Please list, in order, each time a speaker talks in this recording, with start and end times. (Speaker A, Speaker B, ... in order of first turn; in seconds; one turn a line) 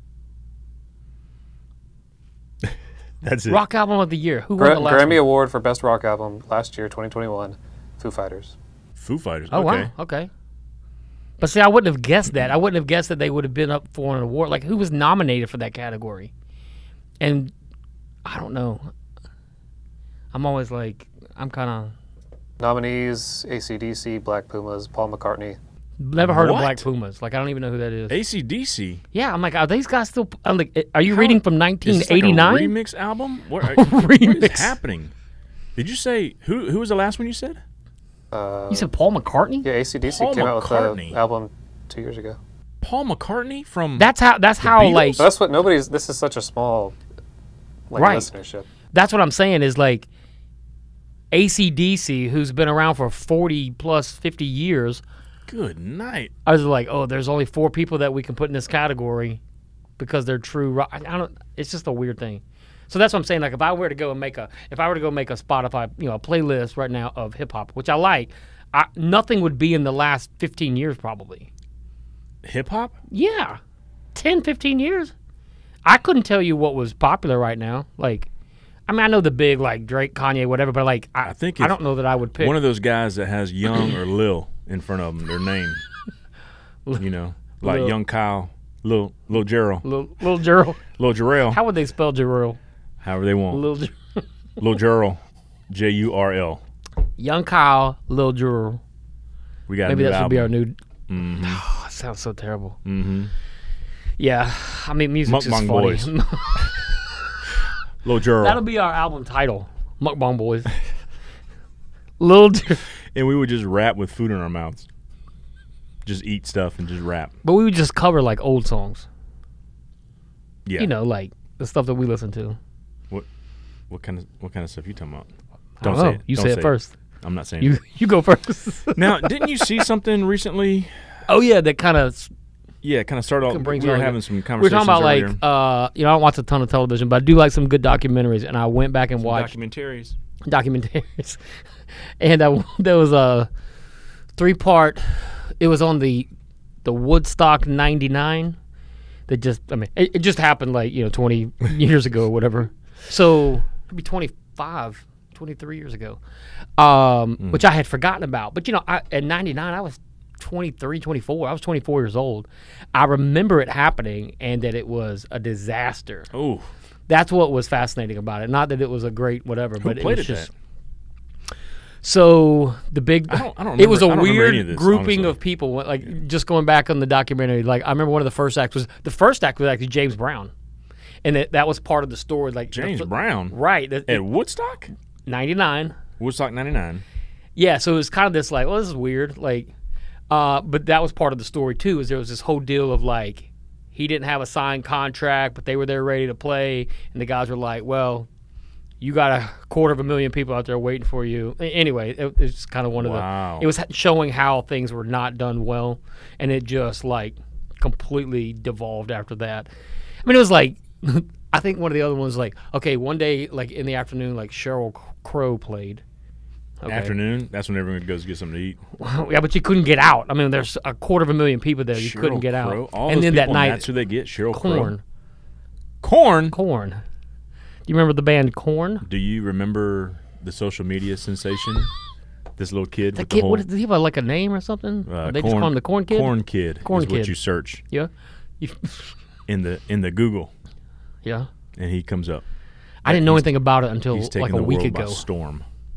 Speaker A: 2.6-3.6
Speaker B: 3.5-5.2
Speaker C: 4.6-8.6
Speaker A: 9.0-9.9
Speaker B: 9.5-10.3
Speaker B: 11.4-16.3
Speaker B: 17.2-17.5
Speaker B: 18.2-18.9
Speaker B: 20.3-21.9
Speaker C: 22.6-25.6
Speaker B: 26.0-28.2
Speaker A: 26.2-26.9
Speaker A: 28.1-29.0
Speaker B: 29.1-32.7
Speaker A: 31.1-35.1
Speaker B: 33.6-34.8
Speaker A: 35.8-37.6
Speaker C: 38.3-38.9
Speaker B: 38.7-39.7
Speaker C: 39.6-42.4
Speaker A: 40.1-41.2
Speaker A: 42.8-45.3
Speaker B: 44.0-45.3
Speaker C: 45.2-47.0
Speaker C: 47.9-48.7
Speaker B: 48.0-48.3
Speaker B: 48.9-50.1
Speaker B: 51.3-55.0
Speaker A: 55.5-56.3
Speaker B: 56.5-59.4
Speaker B: 60.0-71.5
Speaker A: 72.4-73.0
Speaker B: 73.1-73.6
Speaker B: 74.2-75.1
Speaker B: 75.8-78.3
Speaker B: 78.9-82.6
Speaker A: 81.2-81.8
Speaker A: 82.4-85.8
Speaker A: 87.0-89.9
Speaker B: 87.6-87.9
Speaker B: 89.8-90.8
Speaker A: 91.0-91.6
Speaker B: 91.5-92.6
Speaker A: 93.0-93.6
Speaker B: 93.5-94.2
Speaker A: 94.6-96.6
Speaker B: 97.2-98.8
Speaker A: 99.7-100.5
Speaker B: 99.8-100.8
Speaker A: 101.1-101.6
Speaker B: 101.4-102.8
Speaker A: 102.8-103.3
Speaker B: 104.2-106.9
Speaker A: 105.3-106.8
Speaker A: 108.0-108.6
Speaker B: 108.4-110.7
Speaker B: 112.2-112.8
Speaker A: 113.1-114.9
Speaker A: 116.0-117.3
Speaker B: 117.4-119.1
Speaker B: 120.8-122.6
Speaker A: 123.9-125.3
Speaker B: 125.8-126.9
Speaker A: 125.8-127.7
Speaker B: 127.6-129.7
Speaker A: 128.9-131.1
Speaker B: 131.3-132.3
Speaker A: 132.8-135.4
Speaker B: 133.5-139.6
Speaker A: 139.2-140.2
Speaker B: 140.4-141.4
Speaker B: 142.2-143.5
Speaker B: 144.4-146.3
Speaker B: 146.8-148.6
Speaker B: 149.3-156.2
Speaker B: 156.8-166.3
Speaker A: 166.3-166.7
Speaker B: 167.1-170.5
Speaker A: 169.8-170.5
Speaker B: 172.0-180.5
Speaker A: 173.3-175.4
Speaker B: 181.2-184.3
Speaker A: 182.7-183.6
Speaker A: 184.1-184.9
Speaker B: 185.3-186.0
Speaker A: 186.2-187.0
Speaker B: 187.6-189.7
Speaker B: 190.3-198.3
Speaker B: 199.0-209.7
Speaker A: 203.0-203.7
Speaker B: 210.2-216.0
Speaker B: 216.8-217.1
Speaker A: 216.9-218.8
Speaker B: 219.0-223.9
Speaker A: 221.9-224.9
Speaker B: 224.5-225.0
Speaker A: 226.0-226.6
Speaker B: 226.5-227.0
Speaker B: 227.9-229.1
Speaker A: 229.0-231.9
Speaker A: 232.6-233.7
Speaker B: 233.2-237.4
Speaker A: 235.1-237.8
Speaker B: 237.9-239.2
Speaker A: 239.5-240.5
Speaker B: 241.2-241.5
Speaker A: 241.8-242.4
Speaker B: 243.0-245.2
Speaker A: 243.1-245.7